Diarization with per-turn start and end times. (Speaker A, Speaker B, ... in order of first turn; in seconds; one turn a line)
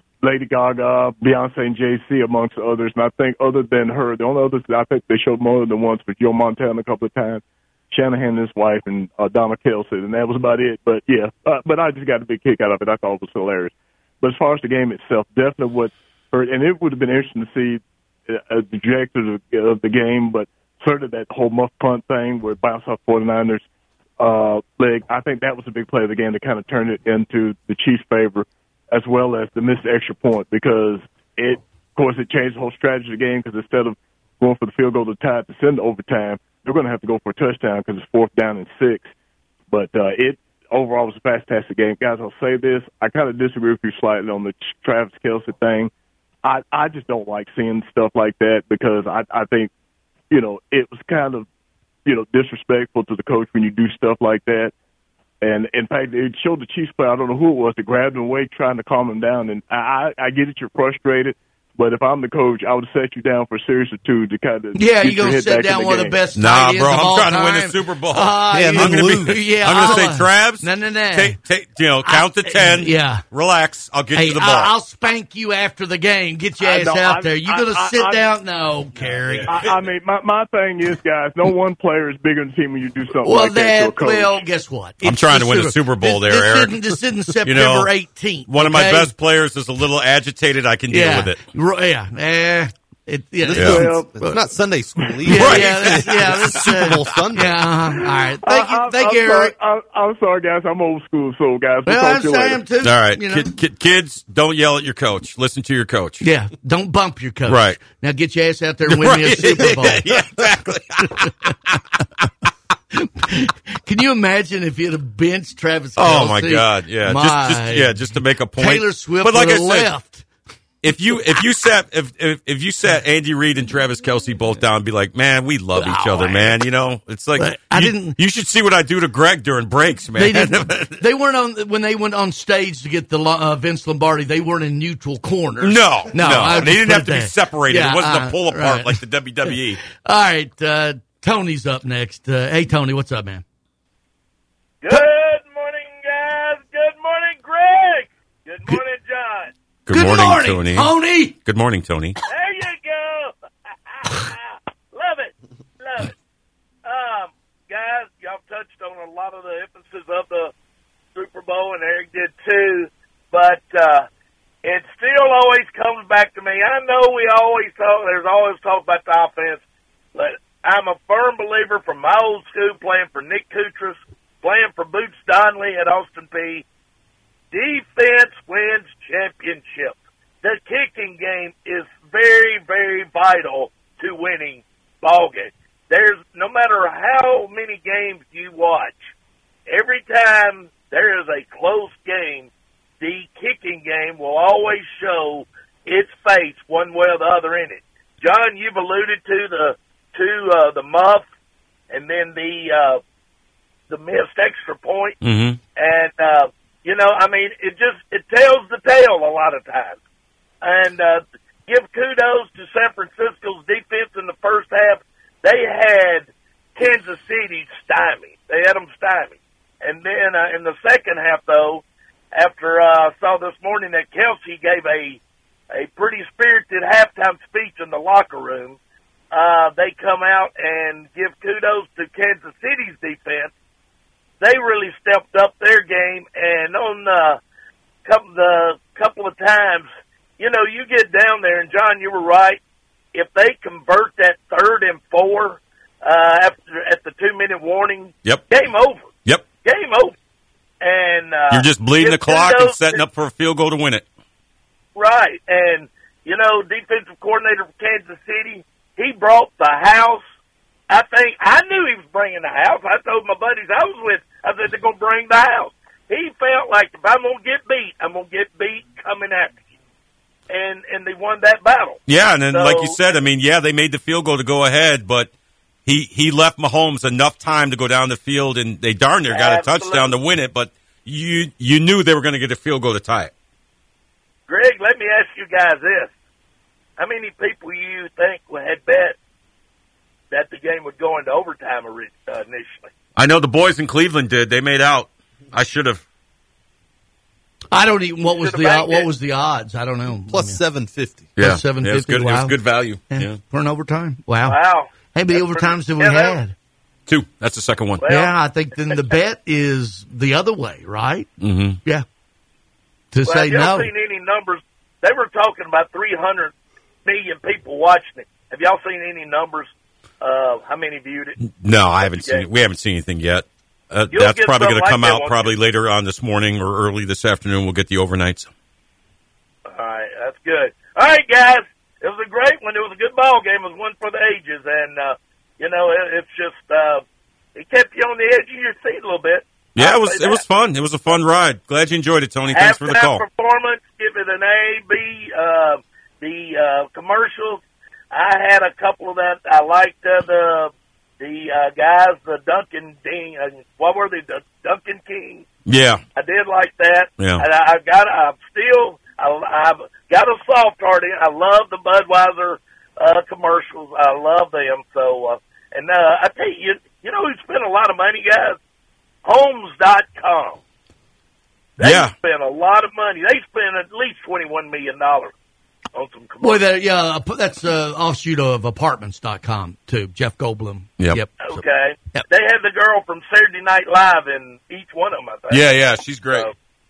Speaker A: 0.2-17.8
Speaker A: 18.3-23.6
Speaker A: 24.2-39.1
Speaker A: 39.7-45.9
Speaker A: 46.4-49.7
Speaker A: 50.3-51.5
Speaker A: 52.0-54.7
Speaker A: 55.4-66.2
Speaker B: 64.8-71.4
Speaker C: 66.3-74.7
Speaker D: 68.5-69.4
Speaker B: 72.0-73.2
Speaker B: 74.1-79.5
Speaker A: 76.6-78.2
Speaker C: 79.0-79.7
Speaker A: 79.5-84.4
Speaker B: 83.2-89.1
Speaker C: 85.0-87.9
Speaker C: 88.5-91.4
Speaker B: 90.9-94.4
Speaker D: 93.4-97.6
Speaker C: 93.5-93.9
Speaker B: 95.2-99.5
Speaker C: 95.3-96.8
Speaker A: 98.4-102.6
Speaker B: 101.8-103.5
Speaker C: 102.8-106.2
Speaker B: 106.2-110.1
Speaker C: 107.5-107.8
Speaker C: 108.9-111.5
Speaker B: 113.2-118.0
Speaker C: 116.0-119.9
Speaker B: 118.6-120.2
Speaker C: 120.8-131.0
Speaker B: 125.8-126.6
Speaker B: 127.4-128.2
Speaker B: 130.2-139.0
Speaker C: 135.6-139.8
Speaker B: 139.9-143.4
Speaker E: 144.8-149.5
Speaker C: 149.8-152.2
Speaker B: 149.9-151.3
Speaker E: 152.3-153.3
Speaker E: 154.1-154.4
Speaker E: 154.9-156.1
Speaker E: 156.8-160.5
Speaker E: 161.2-164.1
Speaker E: 164.6-169.6
Speaker E: 170.1-176.6
Speaker E: 177.5-189.0
Speaker E: 189.7-192.5
Speaker E: 193.0-201.2
Speaker E: 201.9-203.0
Speaker E: 203.9-205.2
Speaker C: 205.2-205.6
Speaker E: 205.8-210.0
Speaker E: 210.6-225.2
Speaker E: 225.7-228.8
Speaker E: 229.3-233.5
Speaker E: 234.4-237.4
Speaker E: 238.1-239.9
Speaker E: 240.4-242.6
Speaker E: 243.1-250.1
Speaker E: 250.8-253.0
Speaker C: 251.5-254.0
Speaker E: 254.9-260.2
Speaker E: 260.9-269.5
Speaker E: 270.5-272.0
Speaker C: 272.1-275.3
Speaker E: 272.5-273.0
Speaker C: 275.8-283.3
Speaker E: 279.3-280.1
Speaker E: 284.5-286.1
Speaker E: 287.0-289.1
Speaker E: 290.3-292.9
Speaker C: 293.1-296.0
Speaker B: 297.7-300.6
Speaker E: 298.3-299.1
Speaker D: 300.3-301.3
Speaker B: 301.4-302.6
Speaker C: 301.4-303.4
Speaker B: 303.1-304.6
Speaker E: 304.4-306.4
Speaker B: 305.1-306.5
Speaker C: 307.1-308.1
Speaker E: 308.0-308.3
Speaker B: 308.0-311.3
Speaker C: 311.4-311.8
Speaker B: 313.1-313.9
Speaker E: 313.2-316.5
Speaker E: 317.1-321.3
Speaker C: 321.4-328.5
Speaker E: 322.0-322.4
Speaker E: 324.1-325.5
Speaker E: 329.7-337.0
Speaker E: 337.6-340.4
Speaker C: 339.8-343.2
Speaker E: 342.5-347.6
Speaker E: 348.1-355.4
Speaker C: 355.6-356.0
Speaker E: 356.1-368.6
Speaker C: 357.2-357.4
Speaker E: 369.2-370.6
Speaker E: 371.8-375.3
Speaker C: 371.8-372.1
Speaker E: 375.9-376.6
Speaker B: 376.4-381.6
Speaker E: 381.4-385.7
Speaker C: 385.5-386.5